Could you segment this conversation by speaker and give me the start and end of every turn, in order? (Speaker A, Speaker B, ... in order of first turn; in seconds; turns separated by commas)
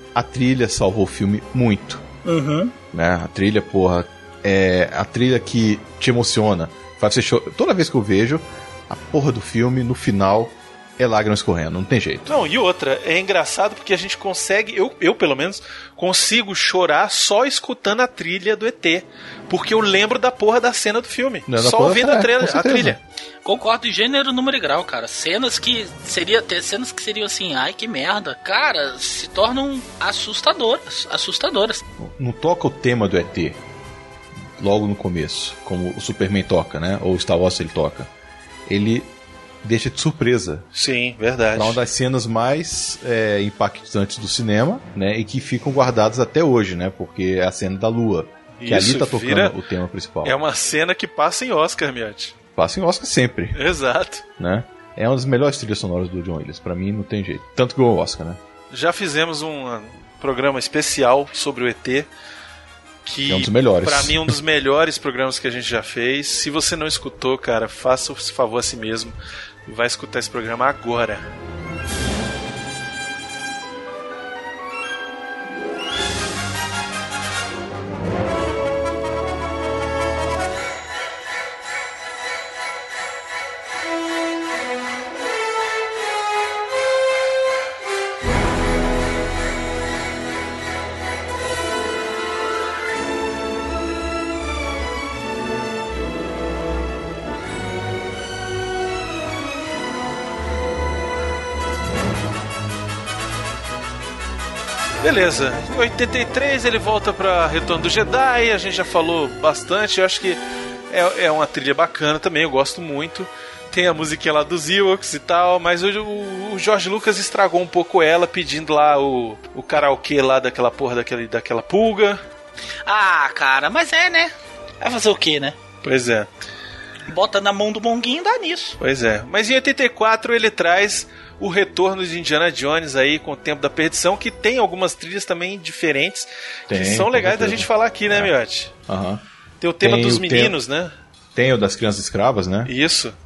Speaker A: 0.1-2.0, Speaker B: 2.2-2.7, Speaker A: 2.9-12.3, Speaker C: 12.3-23.0, Speaker A: 21.5-23.0, Speaker B: 23.4-31.8, Speaker A: 32.0-33.6, Speaker A: 34.6-38.1, Speaker A: 38.7-39.1, Speaker A: 39.6-40.6, Speaker C: 40.7-41.8, Speaker A: 41.5-50.4, Speaker C: 48.6-49.5, Speaker C: 50.2-52.3, Speaker A: 52.5-53.6, Speaker C: 53.5-54.2, Speaker A: 54.4-58.4, Speaker C: 58.7-62.1, Speaker C: 63.0-69.1, Speaker A: 63.2-64.3, Speaker C: 69.7-71.3, Speaker C: 105.0-122.2, Speaker B: 122.8-125.6, Speaker C: 125.8-126.3, Speaker B: 127.1-128.8, Speaker C: 128.8-138.7, Speaker A: 136.7-138.3, Speaker A: 138.9-139.2, Speaker C: 139.6-140.9, Speaker A: 139.8-140.6, Speaker A: 141.3-142.7, Speaker C: 142.7-143.2